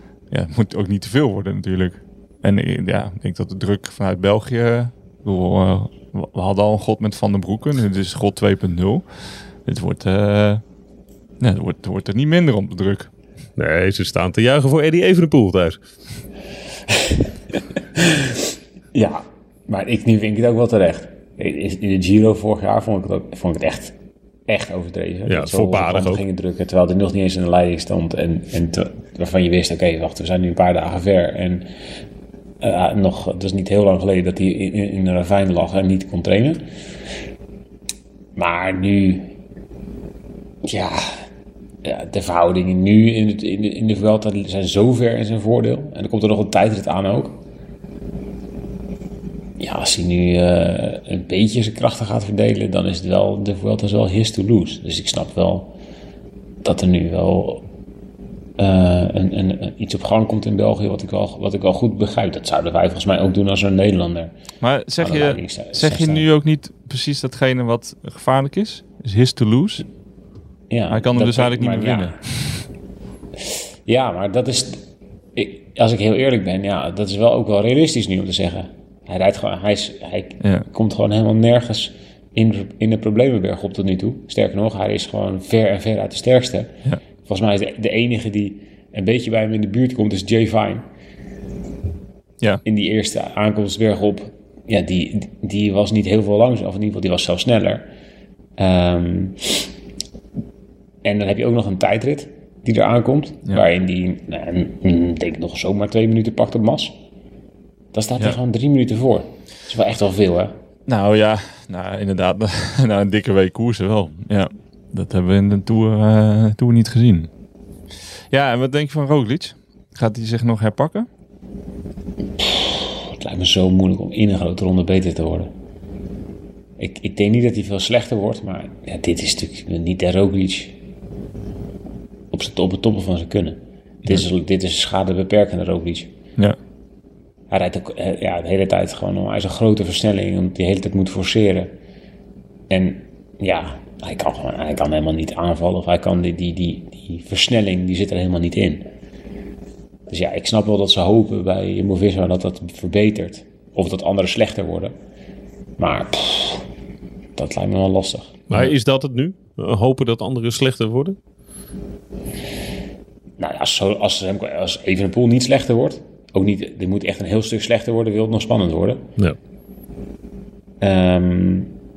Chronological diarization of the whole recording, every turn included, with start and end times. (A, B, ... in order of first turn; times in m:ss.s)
0:00.3-0:10.6 A
0:11.4-0:13.1 A
0:13.6-0:15.8 B
0:18.0-0:18.4 C
0:18.9-0:24.0 C
0:24.5-0:31.7 C
0:25.3-0:26.2 B
0:32.6-0:36.6 C
0:38.4-0:39.3 C
0:40.6-0:41.2 C
0:41.8-0:47.4 C
0:49.6-0:55.7 C
0:56.6-0:57.6 C
0:58.6-1:04.3 C
1:04.6-1:09.9 A
1:05.0-1:06.3 C
1:10.7-1:12.2 C
1:10.9-1:12.6 A
1:13.9-1:26.7 C
1:27.2-1:30.8 C
1:32.6-1:37.9 C
1:38.6-1:39.6 C
1:41.0-1:47.0 C
1:47.9-1:50.5 C
1:50.9-1:57.3 A
1:58.3-2:01.1 A
2:02.4-2:05.5 C
2:06.8-2:10.8 C
2:12.3-2:16.1 C
2:17.5-2:21.7 C
2:22.7-2:28.9 C
2:30.1-2:34.9 C
2:35.8-2:36.7 C
2:37.4-2:38.4 C
2:38.5-2:41.2 B
2:43.4-2:49.1 C
2:50.8-2:51.7 C